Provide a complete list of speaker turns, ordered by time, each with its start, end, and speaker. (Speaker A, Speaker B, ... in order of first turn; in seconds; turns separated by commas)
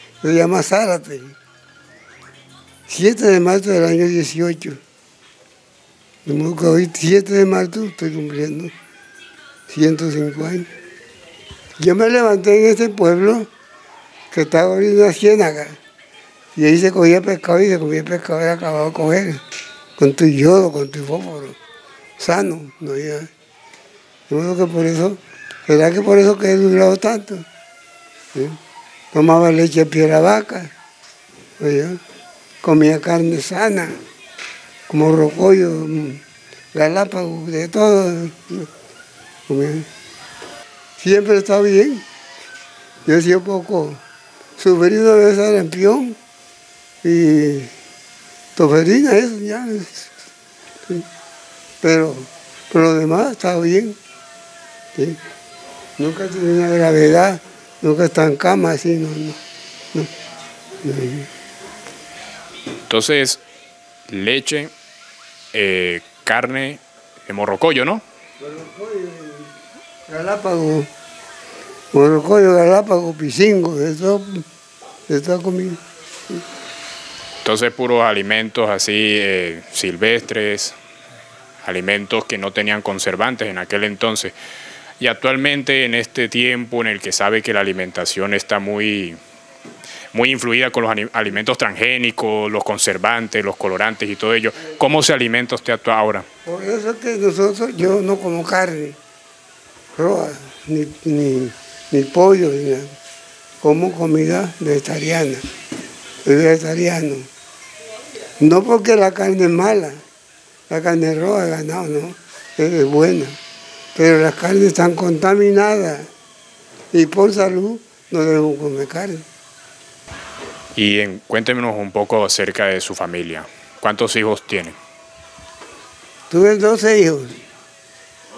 Speaker A: 0.2-1.4, Speaker A: 2.9-4.8, Speaker A: 6.2-8.7, Speaker A: 9.7-10.7, Speaker A: 11.8-13.5, Speaker A: 14.3-15.8, Speaker A: 16.5-19.4, Speaker A: 20.0-21.6, Speaker A: 22.2-23.3, Speaker A: 24.3-27.5, Speaker A: 29.1-30.7, Speaker A: 31.6-32.0, Speaker A: 32.6-33.9, Speaker A: 34.9-36.2, Speaker A: 36.7-38.7, Speaker A: 39.5-39.9, Speaker A: 41.0-42.0, Speaker A: 43.0-44.0, Speaker A: 44.6-46.2, Speaker A: 47.0-47.7, Speaker A: 48.5-50.1, Speaker A: 51.8-54.0, Speaker A: 56.0-59.4, Speaker A: 60.8-61.3, Speaker B: 62.9-63.4, Speaker B: 64.1-64.7, Speaker B: 65.5-68.0, Speaker A: 68.4-69.5, Speaker A: 70.1-70.9, Speaker A: 71.9-74.4, Speaker A: 75.1-75.8, Speaker B: 77.4-80.8, Speaker B: 81.6-84.3, Speaker B: 85.0-89.2, Speaker B: 90.1-96.2, Speaker A: 96.4-99.0, Speaker A: 100.0-102.9, Speaker A: 103.6-105.4, Speaker A: 106.2-107.3, Speaker A: 108.4-110.0, Speaker A: 110.7-113.4, Speaker A: 113.9-116.1, Speaker A: 116.9-119.2, Speaker B: 120.8-124.8, Speaker A: 126.3-127.4